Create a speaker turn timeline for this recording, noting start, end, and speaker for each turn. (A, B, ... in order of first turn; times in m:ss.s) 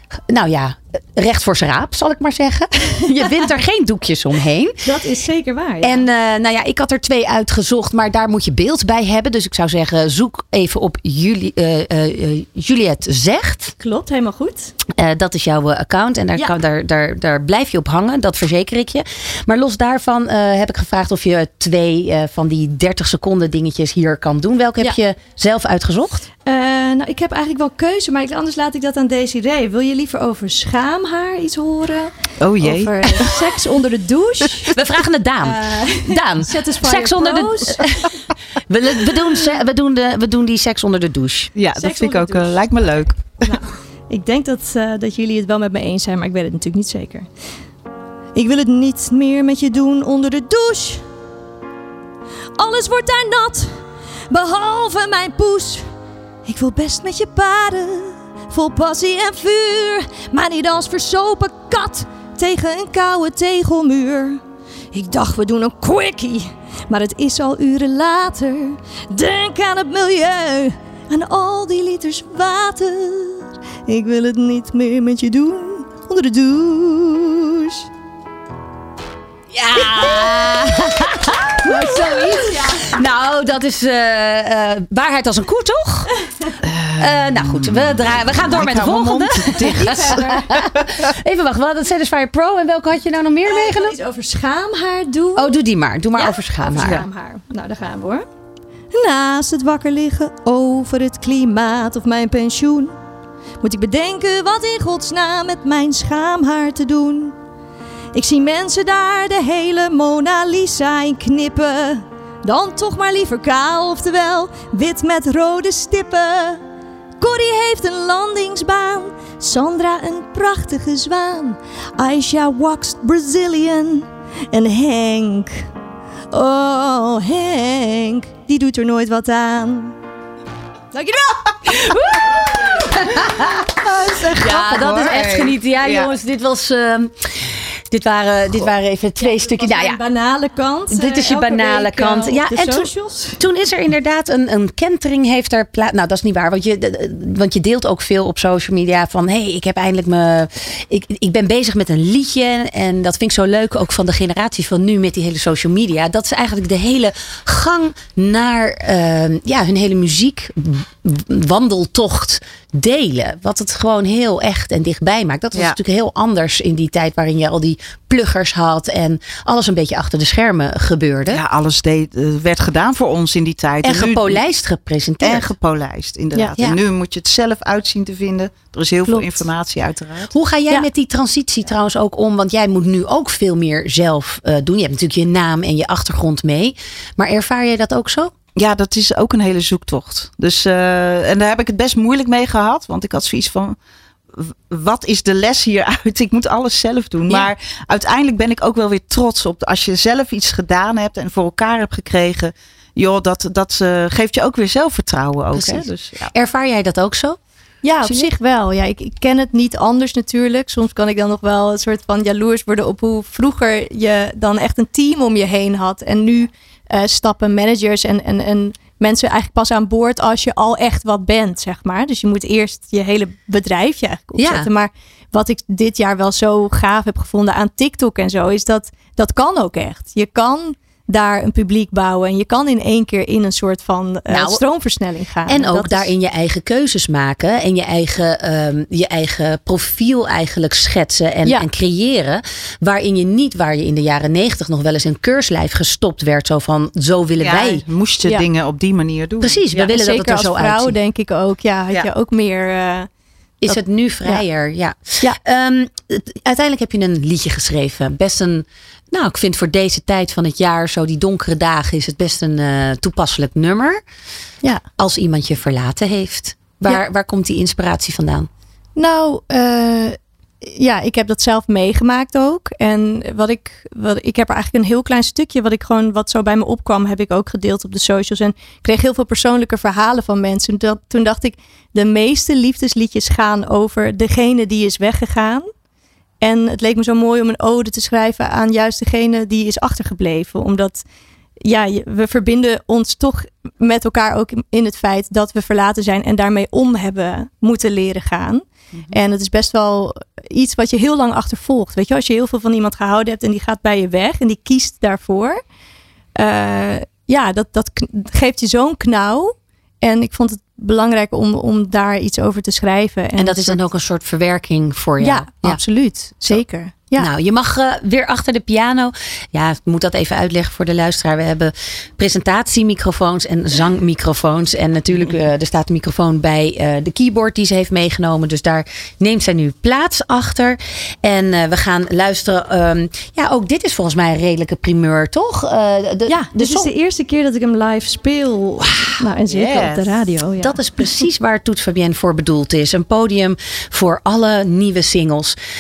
0:00.3-0:04.8 A
0:04.8-0:06.0 B
0:05.8-0:13.7 A
0:13.8-0:14.7 B
0:15.0-0:26.3 A
0:26.4-0:34.8 B
0:32.4-0:33.5 C
0:34.7-0:38.1 A
0:35.4-0:38.0 B
0:38.7-0:41.5 A
0:41.6-0:43.5 C
0:41.8-0:42.5 B
0:43.4-0:47.3 B
0:48.3-0:51.0 B
0:52.6-0:55.9 B
0:56.4-1:04.4 B
1:04.9-1:17.9 B
1:19.5-1:26.1 A
1:19.8-1:20.5 B
1:21.6-1:23.0 B
1:26.6-1:30.1 C
1:27.0-1:34.0 A
1:29.6-1:30.7 B
1:33.4-1:35.6 B
1:35.4-1:37.0 A
1:36.1-1:38.3 B
1:36.8-1:37.0 C
1:38.9-1:43.0 B
1:43.6-1:47.4 B
1:48.1-1:56.6 B
1:57.2-2:05.7 B
2:06.3-2:10.0 B
2:10.9-2:13.2 B
2:12.9-2:13.6 A
2:13.8-2:16.1 C
2:14.4-2:20.0 A
2:19.2-2:23.4 B
2:20.9-2:51.4 A
2:51.3-2:54.4 C
2:53.8-2:55.5 A
2:55.2-3:00.3 C
2:59.1-2:59.4 B
3:00.3-3:08.3 A
3:08.6-3:13.8 C
3:14.3-3:26.3 C
3:25.5-3:27.4 A
3:27.8-3:56.1 B
3:28.0-3:28.3 A
3:44.4-3:44.7 A
3:54.3-3:54.6 A
3:55.5-4:07.8 A
4:07.4-4:09.9 C
4:09.4-4:11.0 A
4:09.7-4:13.1 B
4:13.6-4:24.0 A
4:13.7-4:14.4 B
4:25.0-4:28.5 A
4:29.0-4:45.7 B
4:46.4-4:51.0 B
4:51.6-5:05.6 B
5:06.4-5:13.8 B
5:13.4-5:15.8 A
5:15.2-5:17.3 B
5:17.2-5:36.9 A
5:36.3-5:41.2 B
5:39.5-5:40.1 C
5:40.6-5:45.6 A